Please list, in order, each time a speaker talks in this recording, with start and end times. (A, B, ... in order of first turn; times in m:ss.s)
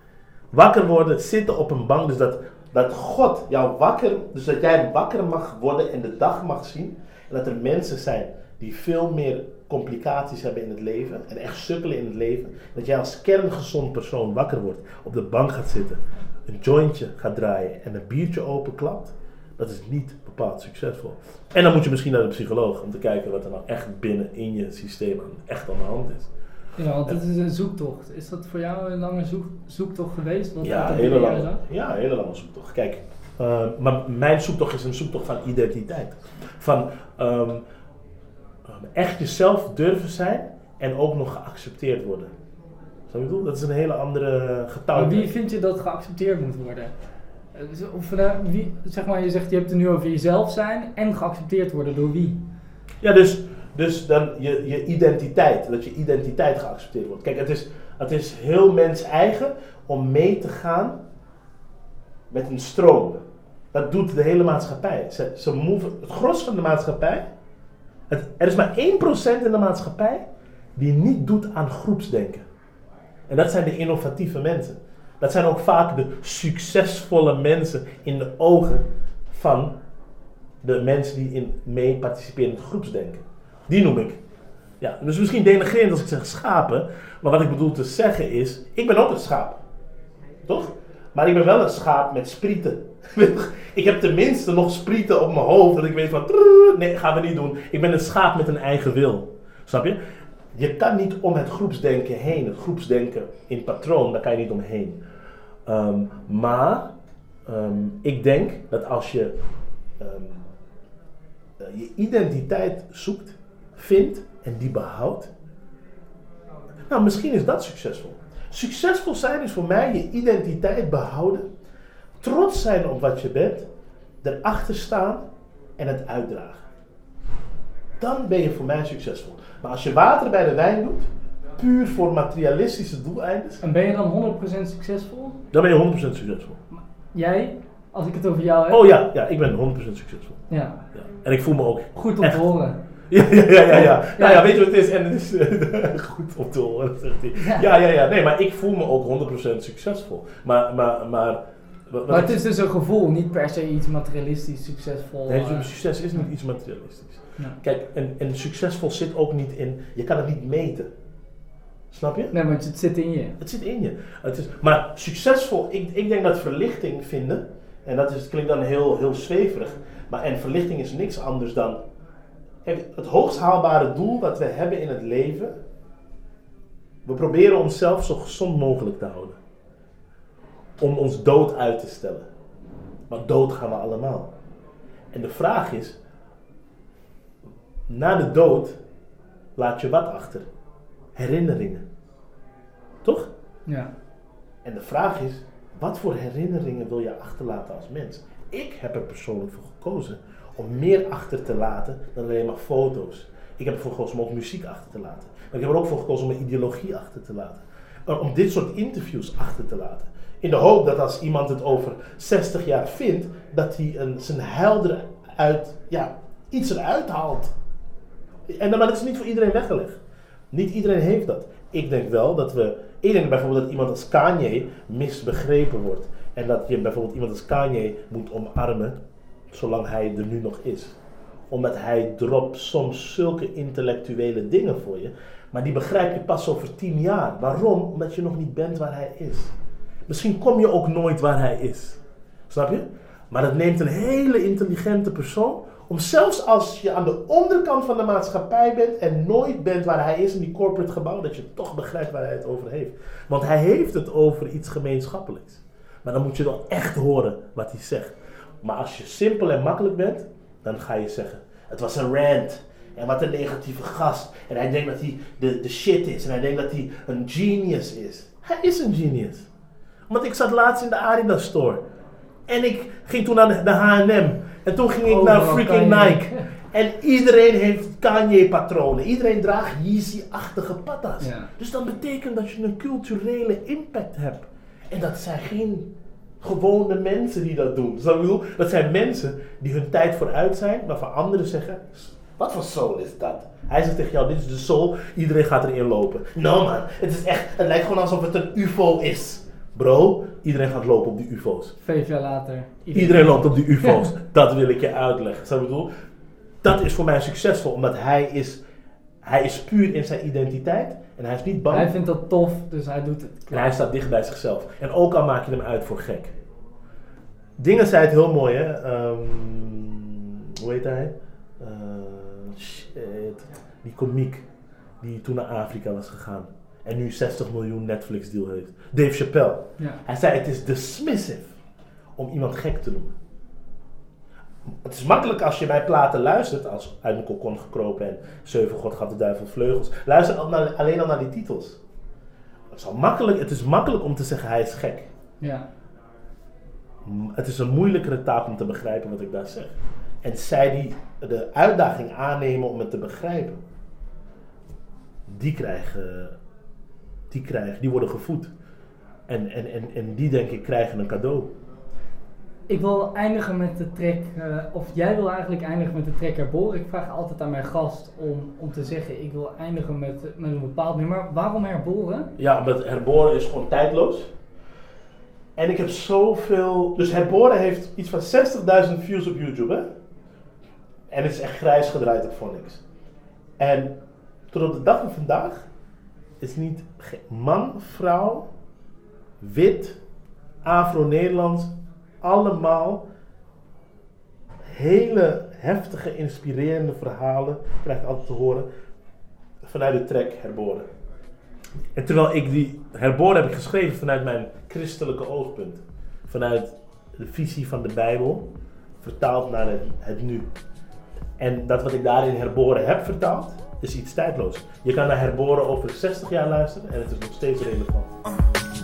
0:00.5-0:26.3 A
0:26.8-0:31.6 B
0:30.6-0:37.6 A
0:38.7-0:42.3 A
0:43.1-0:45.3 A
0:44.9-0:46.9 B
0:47.5-0:52.4 B
0:53.0-1:01.0 A
1:02.3-1:03.2 A
1:03.7-1:07.2 A
1:08.1-1:10.2 A
1:10.8-1:12.4 A
1:13.3-1:19.7 A
1:20.6-1:24.2 A
1:24.8-1:29.6 A
1:30.5-1:40.0 A
1:40.5-1:45.0 A
1:45.6-1:46.9 A
1:47.4-1:49.4 A
1:50.0-1:50.4 A
1:51.6-1:55.3 A
1:56.9-2:01.4 A
2:02.2-2:03.7 A
2:04.2-2:05.2 A
2:05.8-2:06.6 A
2:08.0-2:13.6 A
2:13.6-2:15.4 B
2:15.5-2:16.6 A
2:16.7-2:18.9 B
2:18.7-2:20.4 A
2:20.5-2:20.8 B
2:20.9-2:22.4 A
2:21.9-2:22.8 B
2:23.1-2:32.4 A
2:23.7-2:24.5 B
2:27.3-2:27.7 B
2:32.1-2:35.7 B
2:35.3-2:40.9 A
2:41.9-2:42.3 A
2:42.3-2:43.4 B
2:43.4-2:51.8 A
2:52.6-2:55.5 A
2:57.0-2:59.4 A
3:00.8-3:02.3 A
3:03.1-3:04.3 A
3:05.1-3:06.0 A
3:07.9-3:08.8 A
3:09.6-3:10.5 A
3:11.2-3:11.8 A
3:13.0-3:13.3 A
3:13.6-3:13.9 B
3:14.6-3:37.5 A
3:38.5-3:40.0 A
3:40.5-3:49.0 A
3:49.5-3:51.0 A
3:51.5-3:59.5 A
4:00.1-4:29.5 A
4:30.1-4:31.8 A
4:32.5-4:45.9 A
4:35.0-4:36.5 B
4:41.2-4:41.5 B
4:46.4-5:01.8 A
5:01.8-5:04.0 B
5:02.9-5:05.9 A
5:06.6-5:08.6 A
5:09.2-5:11.9 A
5:11.7-5:13.7 B
5:13.5-5:16.3 A
5:17.6-5:24.4 A
5:25.0-5:31.5 A
5:32.2-5:33.1 A
5:34.8-5:41.8 A
5:42.7-5:45.1 A
5:45.4-5:45.6 B
5:47.0-5:53.6 A
5:55.3-5:56.4 A
5:57.3-5:58.5 A
5:59.3-6:01.5 A
6:02.7-6:12.3 B
6:12.4-6:14.3 A
6:15.6-6:19.9 A
6:21.1-6:22.8 A
6:23.6-6:24.0 A
6:24.5-6:25.7 A
6:26.4-6:28.5 A
6:29.4-6:30.0 A
6:30.6-6:33.1 A
6:34.7-6:38.7 A
6:39.6-6:40.9 A
6:42.0-6:48.5 A
6:49.0-6:50.5 A
6:51.4-6:58.4 A